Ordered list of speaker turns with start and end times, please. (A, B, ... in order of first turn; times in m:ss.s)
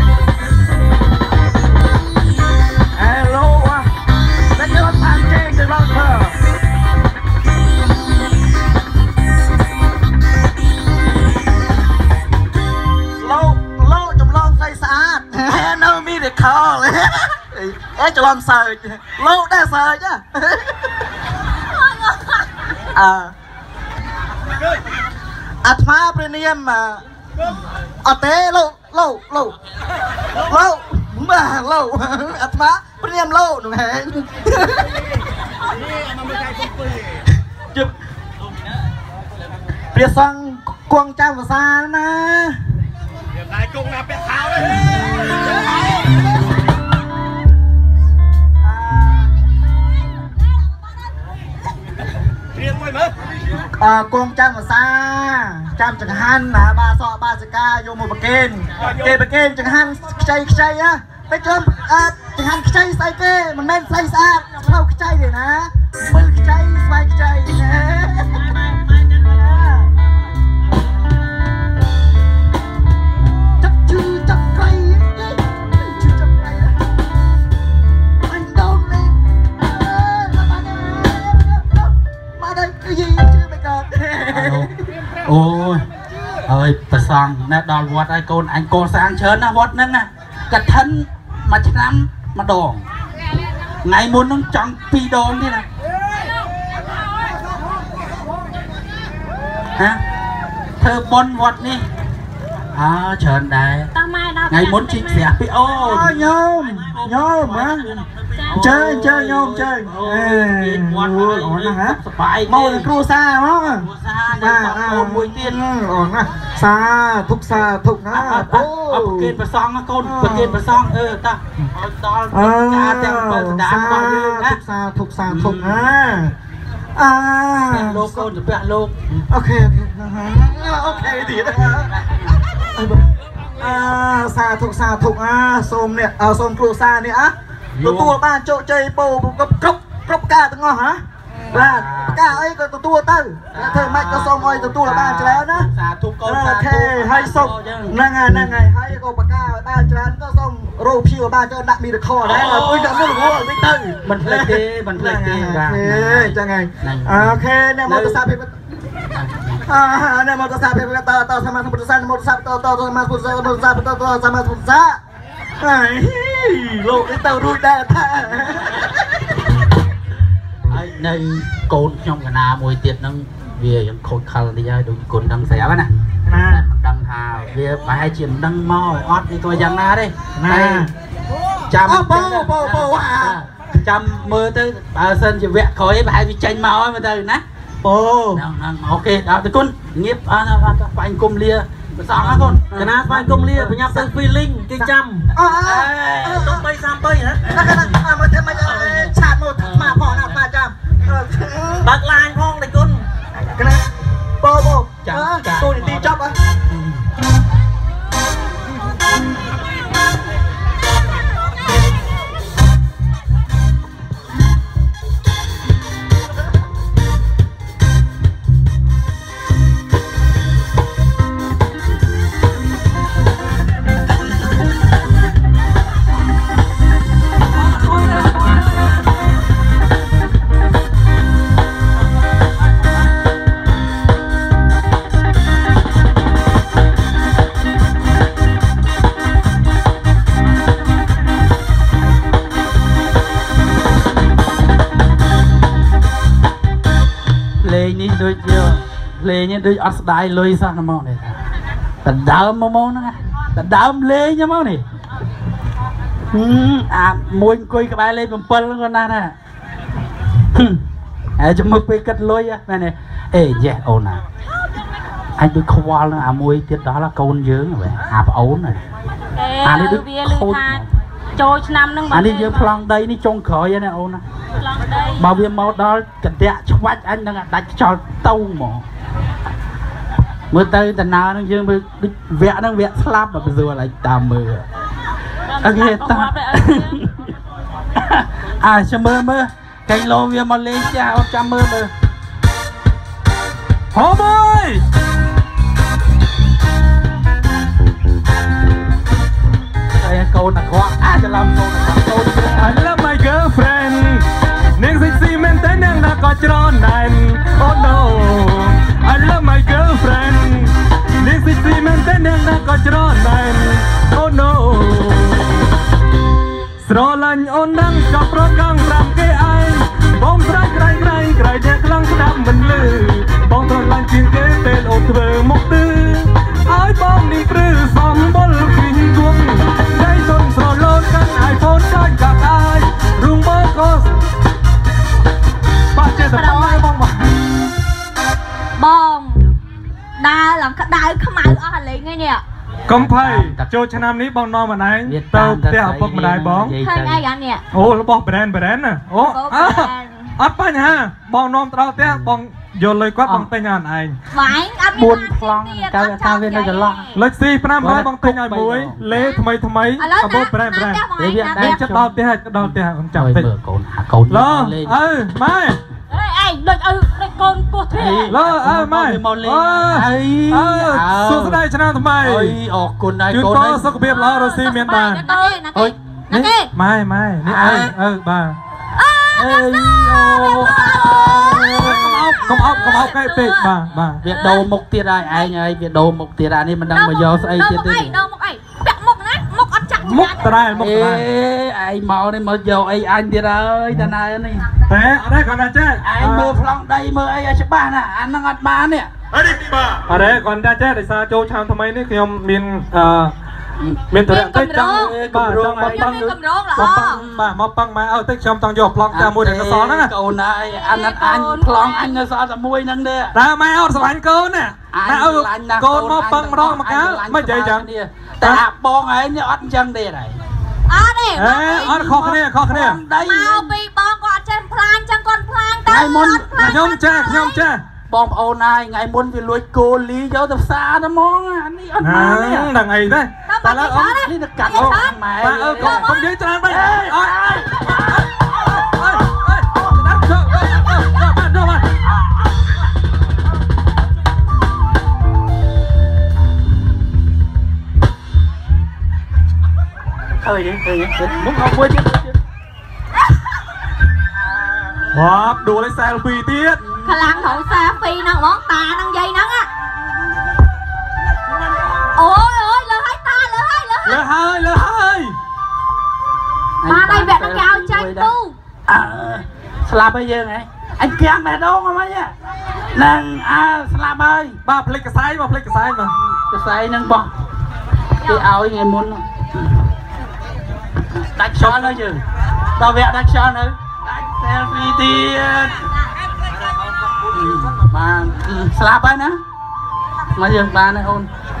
0:02.9-0:03.9 A
0:04.6-0:06.4 A
0:13.2-0:20.8 A
0:21.8-0:22.4 B
0:22.9-0:23.3 A
0:25.6-0:27.0 A
0:28.0-0:29.5 A
0:30.4-0:34.9 A
0:39.9-0:42.6 A
0:48.6-0:49.3 A
0:53.8-1:08.4 A
1:09.1-1:09.9 A
1:13.6-1:16.8 A
1:18.2-1:21.9 A
1:22.4-1:24.7 A
1:24.3-1:24.7 C
1:25.2-1:25.8 C
1:26.4-1:32.8 C
1:33.8-1:35.7 C
1:39.8-1:40.0 C
1:40.8-1:41.8 C
1:42.7-1:43.9 C
1:43.9-1:45.3 B
1:44.5-1:46.4 C
1:45.7-1:48.0 A
1:47.5-1:47.8 C
1:48.4-1:52.9 C
1:48.6-1:59.3 A
1:53.6-1:55.6 C
1:58.1-2:04.6 C
2:00.0-2:00.6 A
2:02.3-2:06.3 A
2:05.3-2:05.9 C
2:06.9-2:08.3 A
2:07.7-2:09.0 C
2:09.3-2:11.9 A
2:10.7-2:12.3 C
2:12.8-2:21.0 A
2:17.8-2:18.2 C
2:21.5-2:22.5 C
2:21.5-2:25.7 A
2:23.5-2:28.5 C
2:26.2-2:38.5 A
2:32.2-2:38.2 C
2:39.1-2:39.6 C
2:39.6-2:45.0 A
2:45.6-2:48.8 A
2:50.7-2:55.9 C
2:56.3-2:56.6 A
2:56.5-3:00.9 C
3:00.4-3:00.9 A
3:01.7-3:07.4 C
3:01.8-3:03.4 A
3:07.8-3:08.4 A
3:08.3-3:12.9 C
3:12.7-3:15.3 D
3:12.7-3:14.2 A
3:14.7-3:16.7 A
3:15.6-3:16.6 C
3:16.2-3:17.8 D
3:17.5-3:21.9 A
3:18.6-3:19.1 D
3:19.7-3:19.9 C
3:21.8-3:23.0 D
3:23.6-3:23.8 A
3:24.4-3:26.3 A
3:25.0-3:26.1 C
3:26.7-3:27.0 C
3:47.6-3:48.6 E
4:07.6-4:11.4 C
4:12.0-4:14.8 C
4:16.3-4:19.4 C
4:20.5-4:20.8 C
4:21.4-4:24.2 C
4:25.4-4:28.8 C
4:29.4-4:32.7 B
4:29.6-4:30.9 C
4:32.1-4:34.2 C
4:34.6-4:35.3 B
4:35.2-4:38.8 C
4:40.5-4:44.6 C
4:45.5-4:47.0 B
4:45.6-4:47.3 C
4:48.0-4:51.9 C
4:53.9-4:54.8 E
5:00.0-5:02.7 C
5:02.6-5:15.6 E
5:16.8-5:34.1 E
5:35.9-5:37.3 E
5:36.0-5:36.9 B
5:38.8-5:39.5 B
5:40.2-5:42.4 B
5:42.8-5:43.8 C
5:42.9-5:46.8 E
5:45.0-5:47.2 C
5:46.8-5:47.6 B
5:47.7-5:54.2 E
5:49.2-5:50.3 B
5:54.3-5:57.2 B
5:54.9-5:57.1 C
5:57.1-6:03.5 E
5:57.8-5:59.2 C
6:00.0-6:01.9 B
6:01.2-6:05.0 C
6:04.3-6:05.8 E
6:06.1-6:08.4 B
6:07.9-6:11.6 C
6:08.3-6:12.6 E
6:12.2-6:14.0 C
6:13.3-6:15.3 E
6:14.1-6:16.7 B
6:15.3-6:16.0 C
6:16.3-6:18.6 E
6:17.4-6:17.9 C
6:18.9-6:24.6 B
6:19.3-6:22.3 C
6:21.8-6:24.2 E
6:24.2-6:28.2 C
6:26.9-6:30.5 B
6:30.0-6:31.2 E
6:30.7-6:34.6 C
6:34.9-6:36.5 E
6:36.0-6:39.1 C
6:39.4-6:43.3 E
6:44.1-6:50.1 E
6:44.2-6:45.1 B
6:44.9-6:47.5 C
6:45.8-6:47.2 B
6:49.1-6:53.4 C
6:50.8-6:52.2 B
6:53.3-6:57.9 E
6:54.9-7:00.4 C
7:00.9-7:01.9 B
7:01.4-7:03.1 E
7:01.7-7:03.8 C
7:03.2-7:07.6 B
7:05.9-7:06.8 C
7:06.6-7:07.8 E
7:08.1-7:12.7 C
7:12.0-7:14.2 E
7:13.5-7:16.2 B
7:14.2-7:16.1 C
7:14.7-7:21.9 E
7:16.7-7:17.7 C
7:30.4-7:32.3 C
7:35.1-7:36.8 E
7:37.0-7:39.7 B
7:42.1-7:44.2 B
7:44.0-7:45.4 E
7:46.8-7:48.3 C
7:46.8-7:48.6 B
7:48.9-7:52.3 C
7:52.9-7:54.6 C
7:54.6-7:56.1 E
7:56.3-7:57.3 C
7:58.2-7:59.3 C
8:01.3-8:02.2 C
8:01.6-8:01.9 E
8:02.8-8:05.8 C
8:07.3-8:09.4 C
8:10.3-8:11.3 C